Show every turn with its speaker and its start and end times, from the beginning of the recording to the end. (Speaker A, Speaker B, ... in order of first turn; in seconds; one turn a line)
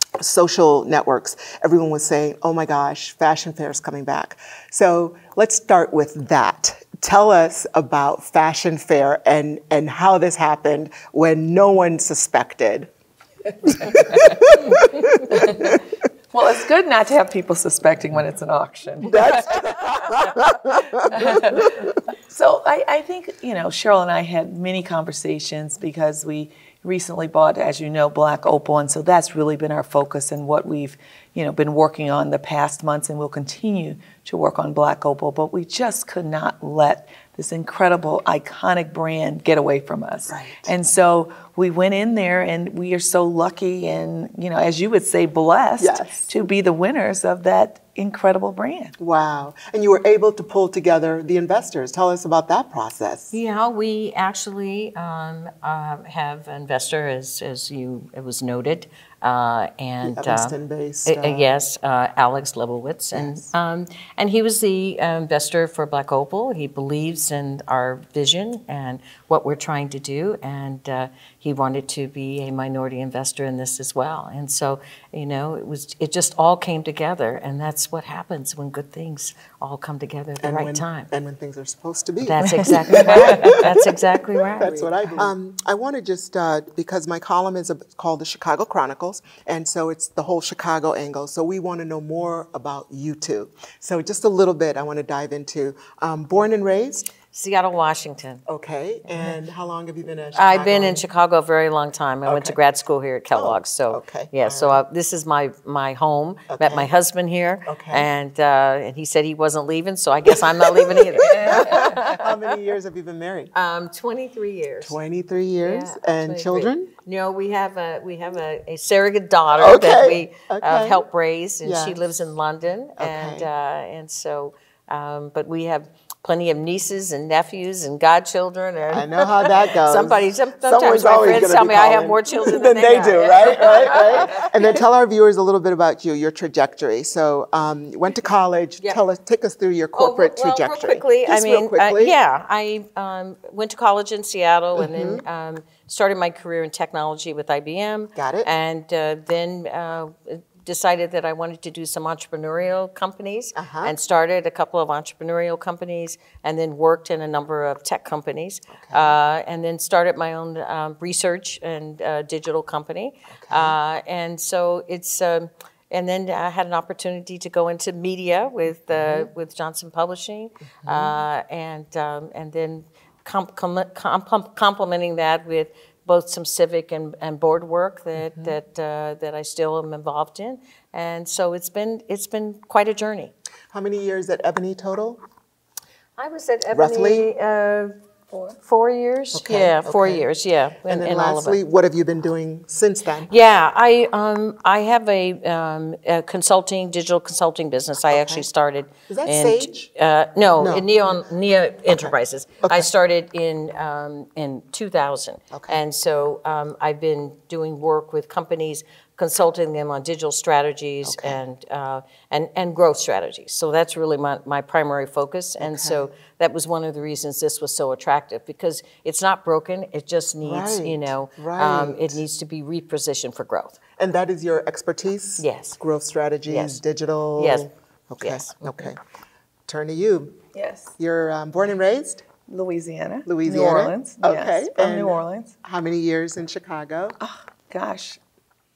Speaker A: 0.2-12.9
Speaker A: 13.7-15.8
Speaker B: 15.3-15.8
Speaker B: 16.3-19.6
Speaker A: 19.1-21.7
Speaker B: 21.1-21.8
Speaker B: 22.3-49.0
Speaker A: 40.3-40.7
Speaker A: 45.8-46.3
Speaker A: 49.0-53.4
Speaker C: 53.3-81.1
Speaker A: 60.0-61.5
Speaker A: 63.1-63.5
Speaker A: 80.4-83.9
Speaker C: 82.2-85.2
Speaker B: 82.8-83.5
Speaker A: 84.5-97.1
Speaker C: 97.3-98.4
Speaker A: 98.5-101.0
Speaker C: 100.3-112.3
Speaker A: 102.3-102.6
Speaker A: 103.3-104.8
Speaker A: 106.5-106.9
Speaker A: 107.7-108.1
Speaker A: 110.3-113.5
Speaker C: 113.5-115.0
Speaker A: 114.8-116.9
Speaker C: 115.6-134.7
Speaker A: 119.6-121.0
Speaker A: 121.6-122.0
Speaker A: 123.0-123.5
Speaker A: 128.9-142.2
Speaker C: 139.9-183.3
Speaker A: 144.8-145.2
Speaker A: 148.2-148.5
Speaker A: 153.6-153.9
Speaker A: 158.7-159.2
Speaker A: 163.3-163.8
Speaker A: 168.9-169.3
Speaker A: 170.7-171.2
Speaker A: 178.2-178.5
Speaker A: 183.7-185.2
Speaker C: 186.2-187.9
Speaker A: 186.7-187.3
Speaker C: 188.6-191.6
Speaker A: 189.3-190.3
Speaker A: 190.8-193.3
Speaker C: 193.3-223.8
Speaker A: 198.1-198.5
Speaker A: 199.1-199.9
Speaker A: 200.6-200.9
Speaker A: 201.9-202.9
Speaker A: 205.5-205.8
Speaker A: 211.0-211.4
Speaker A: 215.6-216.0
Speaker A: 220.4-222.2
Speaker A: 224.0-229.0
Speaker C: 225.4-225.8
Speaker C: 226.5-226.8
Speaker C: 227.4-227.7
Speaker C: 228.2-228.9
Speaker A: 229.7-230.4
Speaker B: 230.5-230.9
Speaker A: 231.0-232.2
Speaker B: 232.5-235.5
Speaker A: 233.3-237.2
Speaker B: 237.2-238.2